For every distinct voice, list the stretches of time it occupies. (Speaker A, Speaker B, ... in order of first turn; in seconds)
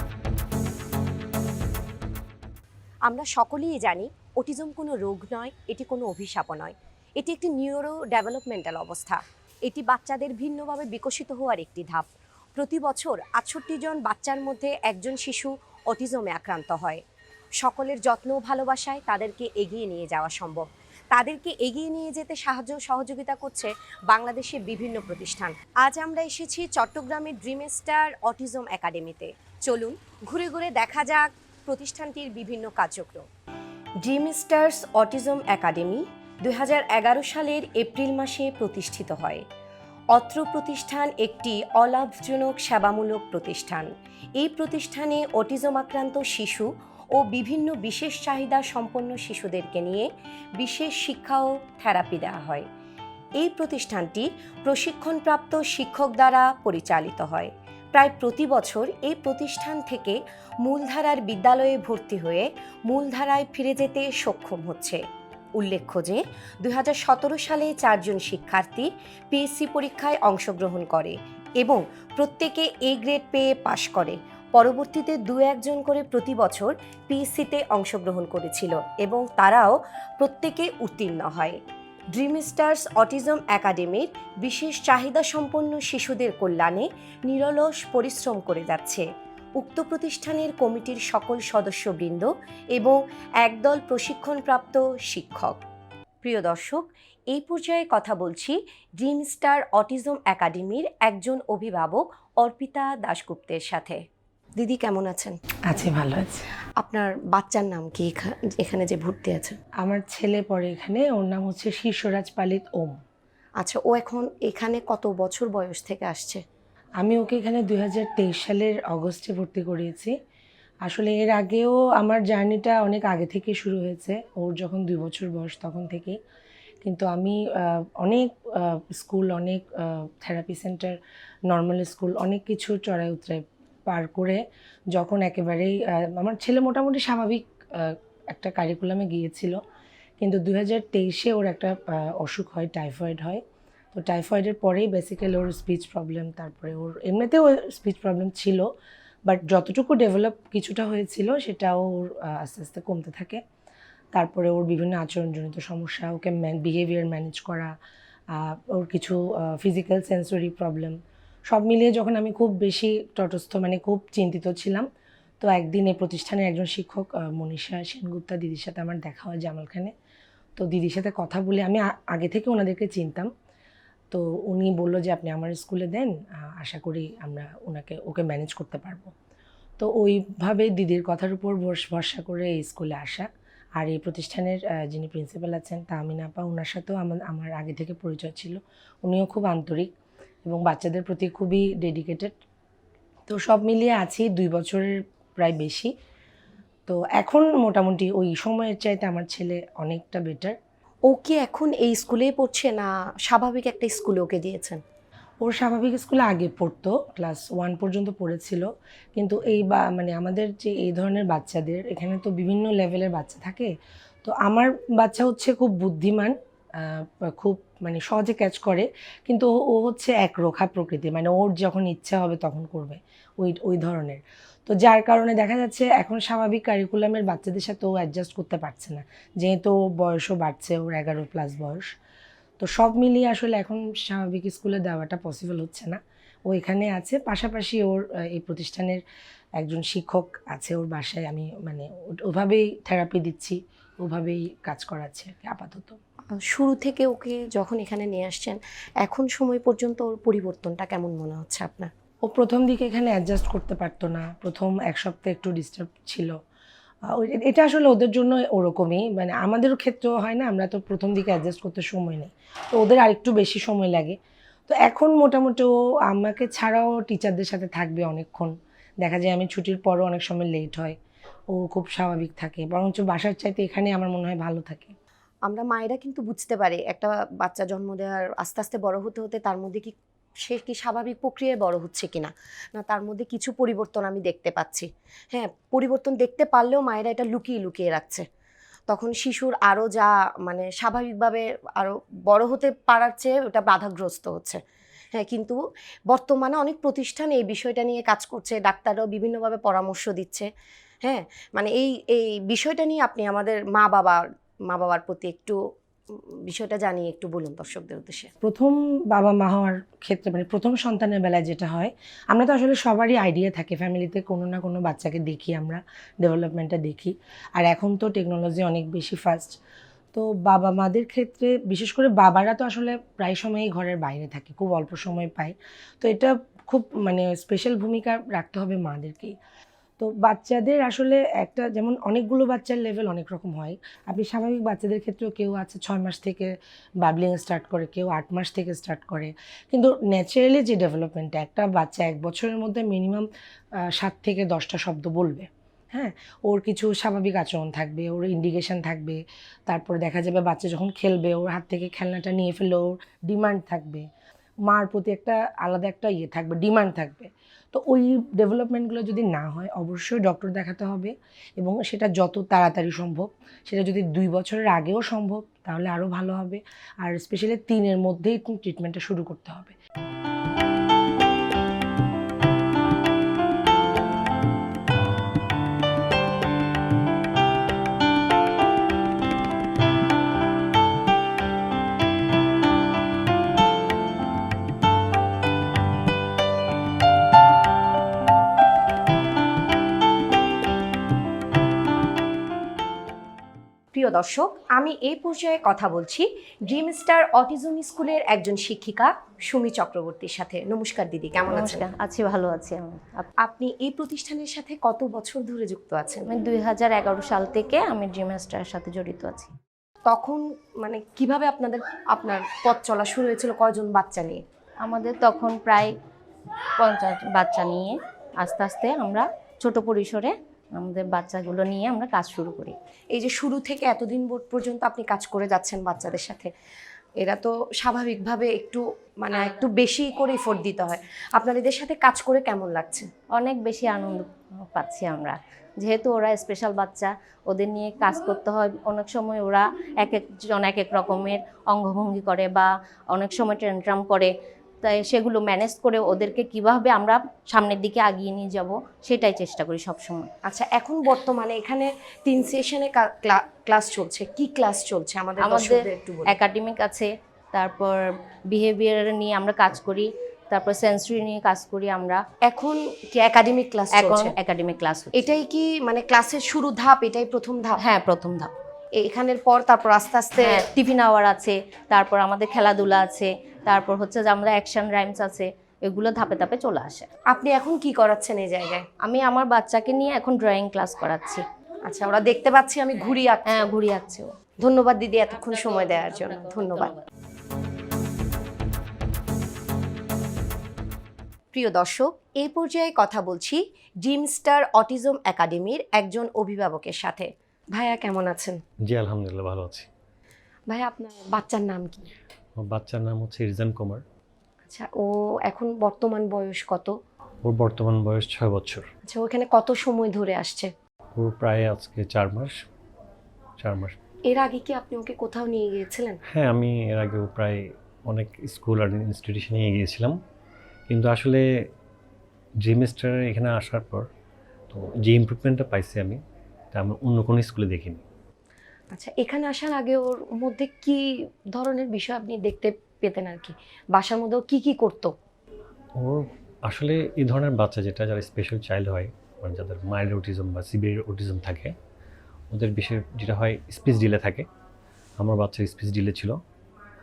Speaker A: 3.0-17.0, 17.6-33.2, 34.0-39.4, 40.1-52.7, 53.4-65.0, 65.6-81.6, 82.1-89.0, 89.6-95.6, 96.2-104.0, 104.5-105.4, 106.8-109.6, 113.6-116.4, 201.1-204.8, 246.3-251.9, 275.4-288.2, 288.9-294.6, 295.1-300.5, 301.0-305.6, 306.1-308.3, 393.9-401.8, 403.4-406.3, 410.1-414.4, 423.1-426.5, 427.2-433.1, 450.4-456.3, 462.4-464.4, 465.1-467.8, 469.0-470.6, 477.3-478.9, 481.9-483.7, 484.6-486.9, 491.5-498.6, 500.7-502.1, 504.7-506.9, 509.1-510.7, 514.3-516.2, 528.9-535.1
Speaker B: 105.7-106.5, 109.8-113.0, 117.0-120.1, 120.8-126.2, 126.8-131.0, 131.5-134.4, 134.9-139.6, 140.2-148.7, 149.3-153.4, 154.1-157.7, 158.3-160.9, 161.5-164.8, 165.4-169.9, 170.6-173.3, 174.1-179.1, 179.8-189.9, 190.4-192.3, 193.3-195.9, 196.9-200.6, 205.4-213.7, 214.2-231.9, 232.6-239.0, 239.6-246.0, 252.3-256.3, 257.1-271.0, 271.5-274.9, 308.4-319.6, 320.1-329.4, 330.0-343.3, 343.9-354.1, 354.6-369.8
Speaker C: 401.5-403.3, 406.3-409.5, 414.8-415.9, 416.8-422.7, 433.3-444.3, 444.8-450.3, 455.4-462.2, 463.9-465.3, 467.8-468.5, 470.4-477.1, 479.0-481.4, 483.4-484.3
Speaker D: 498.9-499.9, 502.6-504.0, 507.4-508.9, 511.1-512.5, 513.6-514.0, 516.3-520.1, 520.9-521.4, 522.6-524.1, 524.7-526.2, 526.7-528.0, 536.0-541.7, 542.5-544.5, 545.2-546.4